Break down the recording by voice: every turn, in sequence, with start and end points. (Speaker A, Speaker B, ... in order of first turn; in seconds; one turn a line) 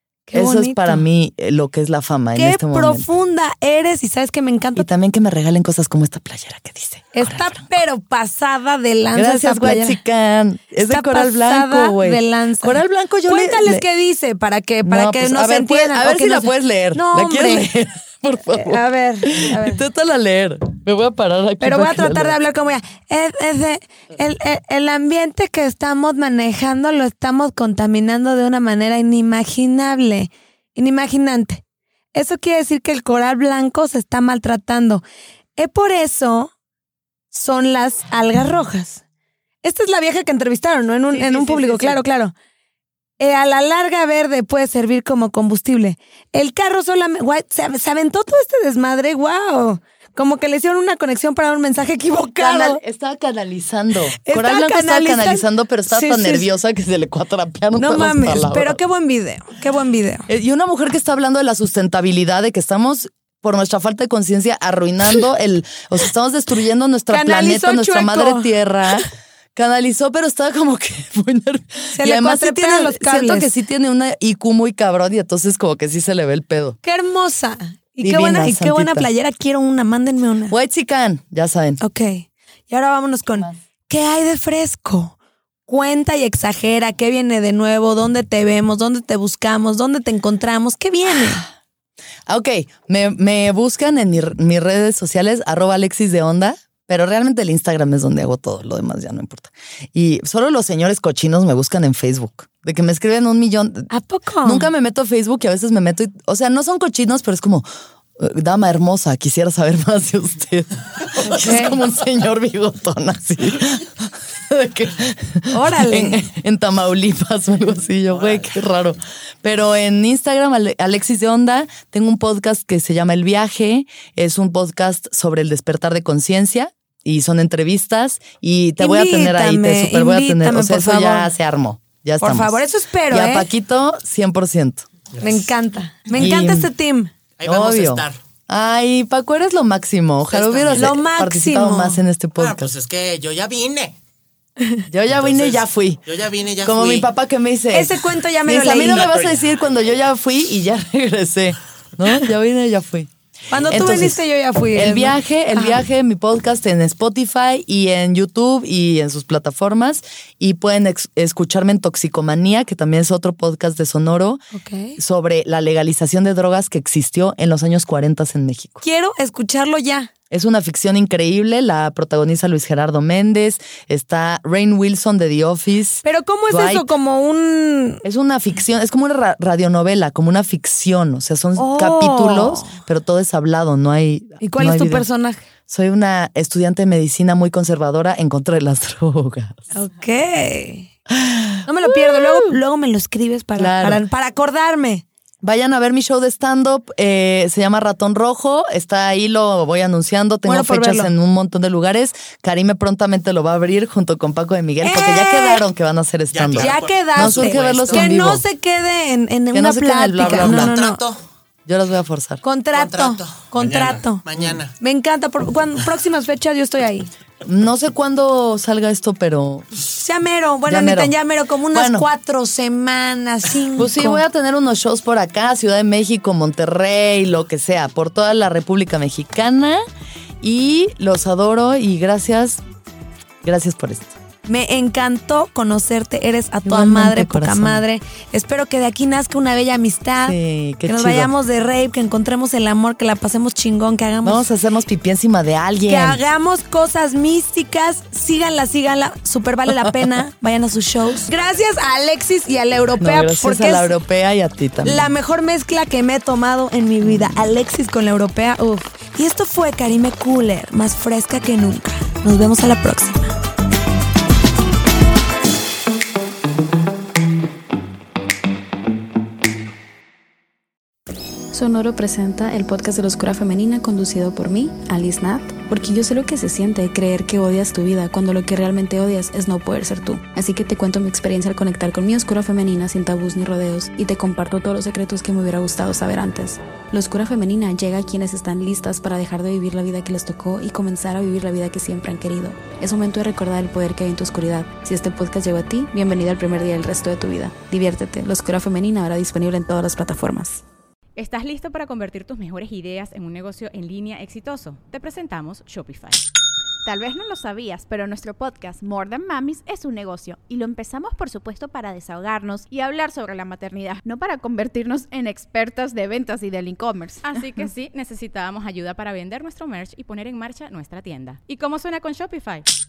Speaker A: 0.3-1.0
Speaker B: 0.3-3.1
Speaker A: 2.4-4.9
Speaker B: 4.8-7.6
Speaker A: 7.1-10.0
Speaker B: 9.2-13.8
Speaker A: 10.8-17.7
Speaker B: 14.8-22.4
Speaker A: 18.5-19.8
Speaker A: 21.6-31.6
Speaker A: 32.1-35.0
Speaker A: 35.6-36.5
Speaker A: 37.3-39.0
Speaker A: 39.6-42.3
Speaker B: 41.1-42.0
Speaker A: 43.2-52.8
Speaker B: 52.4-58.8
Speaker A: 54.2-56.5
Speaker A: 57.8-60.3
Speaker B: 60.3-76.8
Speaker A: 67.1-69.0
Speaker A: 71.9-73.5
Speaker A: 76.8-80.5
Speaker B: 78.0-79.1
Speaker B: 80.5-81.8
Speaker A: 81.8-85.2
Speaker B: 83.3-83.6
Speaker A: 85.7-91.5
Speaker B: 92.3-103.9
Speaker A: 103.9-104.7
Speaker B: 104.4-107.7
Speaker B: 108.2-134.9
Speaker A: 111.3-111.8
Speaker A: 115.5-116.2
Speaker A: 128.8-131.3
Speaker A: 132.2-133.5
Speaker C: 135.2-135.5
Speaker A: 135.2-137.1
Speaker B: 136.2-136.7
Speaker C: 137.4-138.2
Speaker B: 137.4-142.7
Speaker C: 140.3-141.0
Speaker A: 140.7-142.0
Speaker C: 142.4-144.0
Speaker B: 144.9-146.0
Speaker C: 145.1-147.1
Speaker B: 146.6-153.1
Speaker A: 147.7-149.1
Speaker C: 148.8-149.6
Speaker A: 153.5-155.8
Speaker B: 153.7-154.2
Speaker B: 154.7-164.4
Speaker A: 164.5-165.0
Speaker B: 165.0-168.8
Speaker A: 168.8-170.1
Speaker B: 170.3-176.9
Speaker A: 176.0-178.0
Speaker B: 178.0-185.1
Speaker A: 181.6-182.8
Speaker A: 184.4-185.4
Speaker B: 185.7-189.7
Speaker A: 189.7-190.9
Speaker B: 191.1-192.6
Speaker A: 191.7-195.1
Speaker B: 193.6-194.0
Speaker B: 195.4-208.4
Speaker A: 200.4-201.1
Speaker A: 204.8-205.6
Speaker C: 206.3-208.2
Speaker A: 206.6-211.0
Speaker B: 209.5-210.8
Speaker C: 210.2-211.2
Speaker B: 211.7-212.4
Speaker A: 212.4-214.2
Speaker C: 212.7-214.7
Speaker A: 214.8-217.1
Speaker B: 217.4-219.7
Speaker A: 219.9-224.2
Speaker B: 220.7-221.1
Speaker B: 221.7-222.1
Speaker B: 223.8-229.8
Speaker B: 230.4-232.6
Speaker B: 233.4-234.1
Speaker A: 234.5-244.5
Speaker B: 236.7-237.8
Speaker B: 240.2-241.3
Speaker B: 244.2-246.2
Speaker A: 245.9-253.9
Speaker B: 249.7-250.1
Speaker B: 253.0-255.1
Speaker A: 254.8-263.4
Speaker D: 271.5-300.6
Speaker E: 301.2-306.2
Speaker F: 306.9-317.4
Speaker E: 317.2-322.7